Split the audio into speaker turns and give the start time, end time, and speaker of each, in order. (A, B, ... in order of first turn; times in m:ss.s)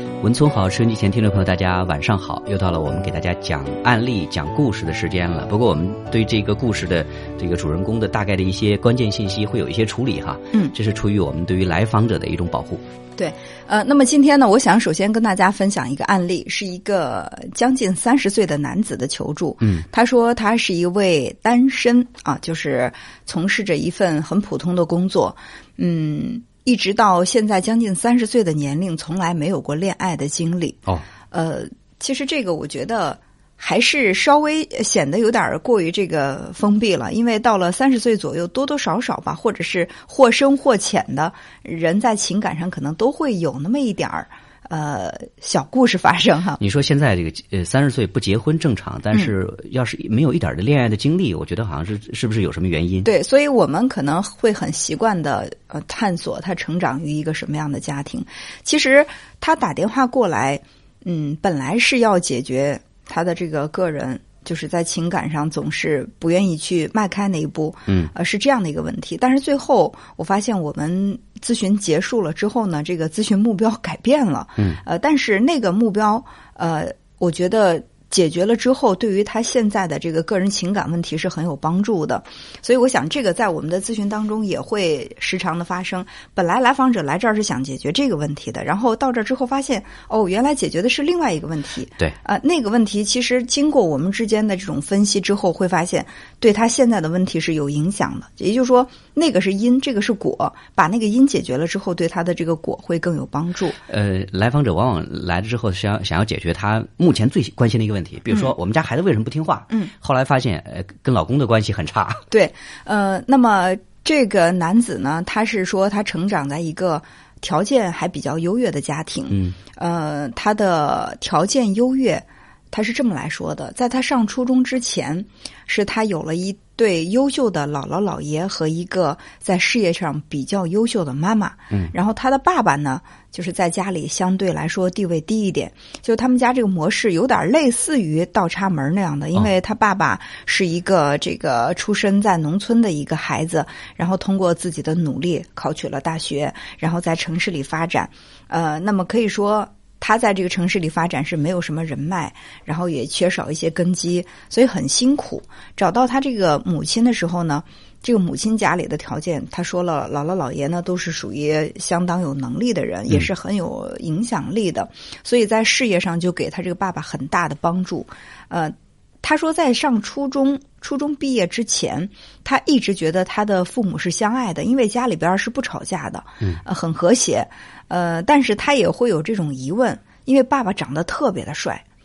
0:00.2-0:12.8 A
0:13.2-0:30.8 B
0:19.6-0:19.9 A
0:31.3-0:46.6 B
0:46.6-0:53.1 A
0:53.0-1:43.8 B
1:43.9-1:52.2 A
1:52.3-3:01.8 B
1:59.3-1:59.6 A